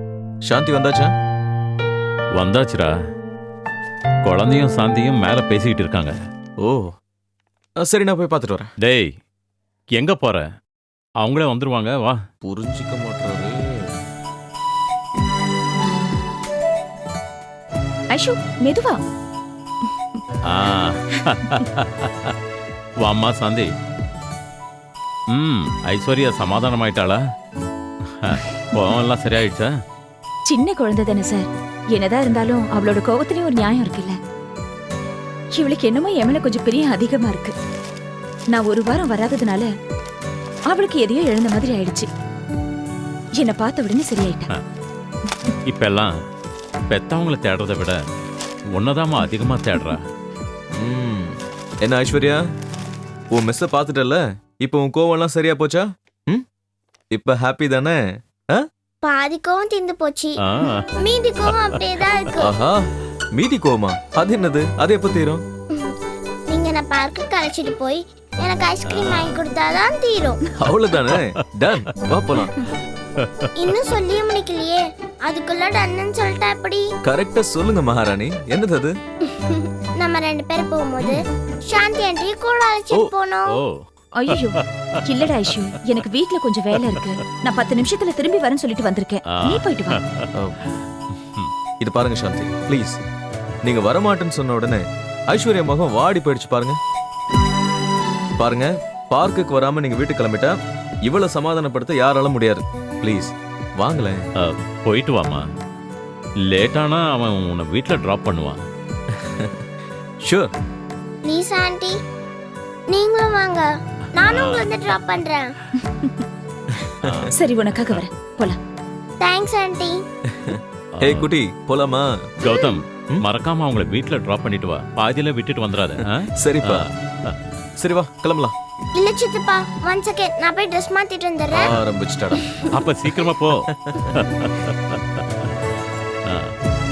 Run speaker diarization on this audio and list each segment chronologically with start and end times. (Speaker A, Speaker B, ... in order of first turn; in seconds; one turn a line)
Speaker A: 0.4-1.1
Speaker B: 2.3-2.9
Speaker B: 4.2-6.2
Speaker A: 6.6-6.9
Speaker A: 7.8-8.7
Speaker B: 8.8-9.1
Speaker B: 9.9-10.4
Speaker B: 11.2-12.2
Speaker A: 12.4-13.9
Speaker C: 18.1-19.0
Speaker B: 20.5-22.3
Speaker B: 23.0-23.7
Speaker B: 25.3-27.2
Speaker B: 28.2-29.7
Speaker C: 30.5-34.2
Speaker C: 35.5-37.5
Speaker C: 38.5-39.7
Speaker C: 40.7-42.1
Speaker C: 43.4-44.5
Speaker B: 45.6-46.1
Speaker B: 46.9-48.0
Speaker B: 48.7-50.0
Speaker A: 50.7-52.4
Speaker A: 53.3-56.4
Speaker A: 57.1-58.6
Speaker D: 59.0-60.3
Speaker B: 60.4-60.9
Speaker D: 61.0-62.4
Speaker B: 61.4-61.8
Speaker A: 62.4-65.4
Speaker D: 66.5-70.4
Speaker B: 68.8-69.4
Speaker A: 70.6-72.6
Speaker D: 73.6-76.9
Speaker A: 77.0-78.9
Speaker D: 79.5-83.4
Speaker B: 83.5-84.6
Speaker C: 84.2-90.0
Speaker B: 89.3-90.3
Speaker B: 91.2-91.5
Speaker A: 91.8-93.0
Speaker A: 93.6-96.8
Speaker A: 98.4-104.2
Speaker B: 104.4-105.4
Speaker B: 106.5-108.6
Speaker A: 109.1-109.6
Speaker A: 110.2-110.5
Speaker D: 111.2-112.0
Speaker D: 112.9-113.7
Speaker B: 114.2-114.7
Speaker D: 114.2-115.5
Speaker B: 117.0-118.0
Speaker C: 117.3-118.6
Speaker D: 119.2-120.0
Speaker A: 120.3-122.3
Speaker B: 121.0-121.3
Speaker B: 122.4-127.3
Speaker A: 126.4-126.8
Speaker A: 127.8-128.5
Speaker D: 129.0-131.6
Speaker A: 131.5-132.4
Speaker B: 132.8-134.7
Speaker A: 133.7-134.1